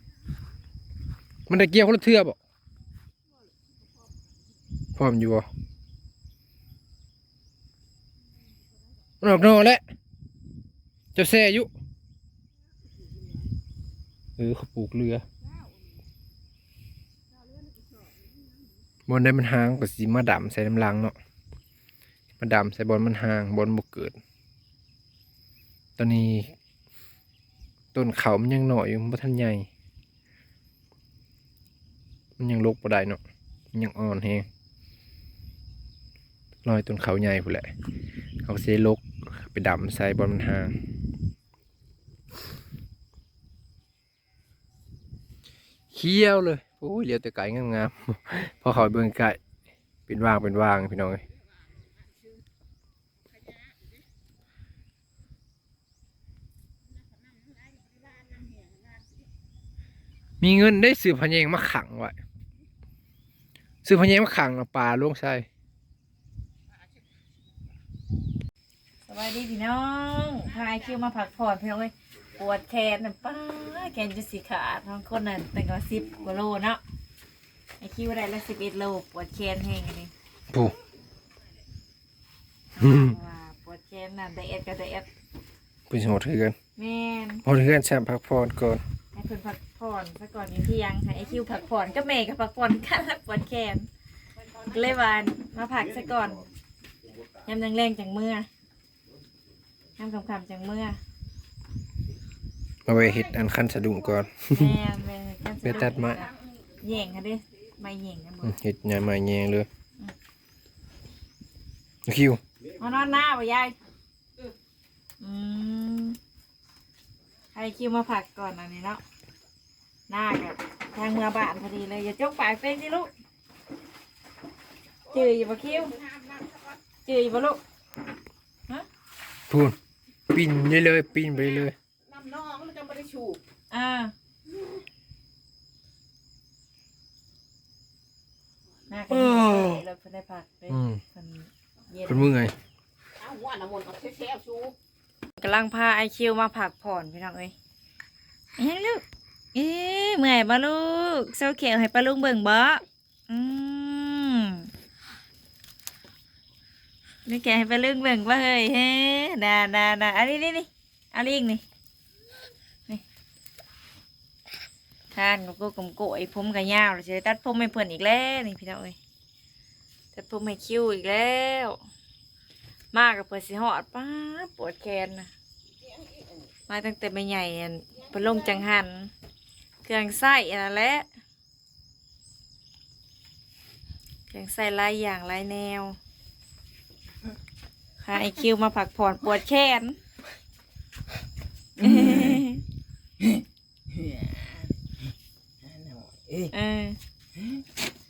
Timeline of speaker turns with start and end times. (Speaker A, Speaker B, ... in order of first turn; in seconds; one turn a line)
Speaker A: 1.5-2.4
Speaker A: 5.0-5.5
Speaker A: 9.2-9.8
Speaker A: 11.1-11.7
Speaker A: 14.4-15.2
Speaker A: 19.1-21.1
Speaker A: 22.4-24.1
Speaker A: 26.0-26.5
Speaker A: 27.9-29.7
Speaker A: 32.4-33.2
Speaker A: 33.7-34.5
Speaker A: 36.6-37.6
Speaker A: 38.4-40.7
Speaker A: 45.9-49.4
Speaker A: 50.1-51.2
Speaker A: 60.4-62.2
Speaker A: 63.8-65.5
Speaker B: 69.1-76.8
Speaker B: 77.8-80.1
Speaker A: 80.5-80.8
Speaker B: 82.8-85.1
Speaker A: 82.8-83.2
Speaker A: 85.9-86.6
Speaker B: 86.8-87.4
Speaker A: 87.4-88.8
Speaker B: 89.1-93.9
Speaker B: 94.7-96.5
Speaker B: 97.4-98.5
Speaker B: 100.0-101.0
Speaker A: 102.8-104.8
Speaker C: 102.9-103.4
Speaker B: 104.4-106.3
Speaker A: 105.6-106.2
Speaker B: 106.8-108.5
Speaker A: 108.4-109.7
Speaker A: 112.0-112.4
Speaker B: 112.8-113.8
Speaker B: 115.2-116.2
Speaker B: 117.5-119.0
Speaker B: 120.1-123.1
Speaker C: 125.1-127.0
Speaker B: 125.1-125.9
Speaker B: 127.0-127.6
Speaker A: 129.5-129.8
Speaker A: 130.3-131.7
Speaker C: 131.5-133.4
Speaker B: 133.7-134.1
Speaker B: 138.9-142.3
Speaker A: 139.1-139.8
Speaker A: 140.7-141.0
Speaker A: 142.1-142.5
Speaker C: 143.2-144.7
Speaker B: 145.4-147.5
Speaker B: 148.6-149.0
Speaker B: 149.5-154.7
Speaker B: 157.2-161.6
Speaker B: 165.1-168.9
Speaker B: 170.1-171.8
Speaker B: 172.9-175.3
Speaker C: 175.8-176.3
Speaker B: 176.7-179.1
Speaker C: 178.0-178.6
Speaker B: 179.8-181.1
Speaker B: 184.3-186.0
Speaker B: 188.0-189.9
Speaker C: 191.8-192.5
Speaker B: 191.8-192.6
Speaker C: 193.2-194.7
Speaker C: 195.6-196.5
Speaker B: 196.5-197.0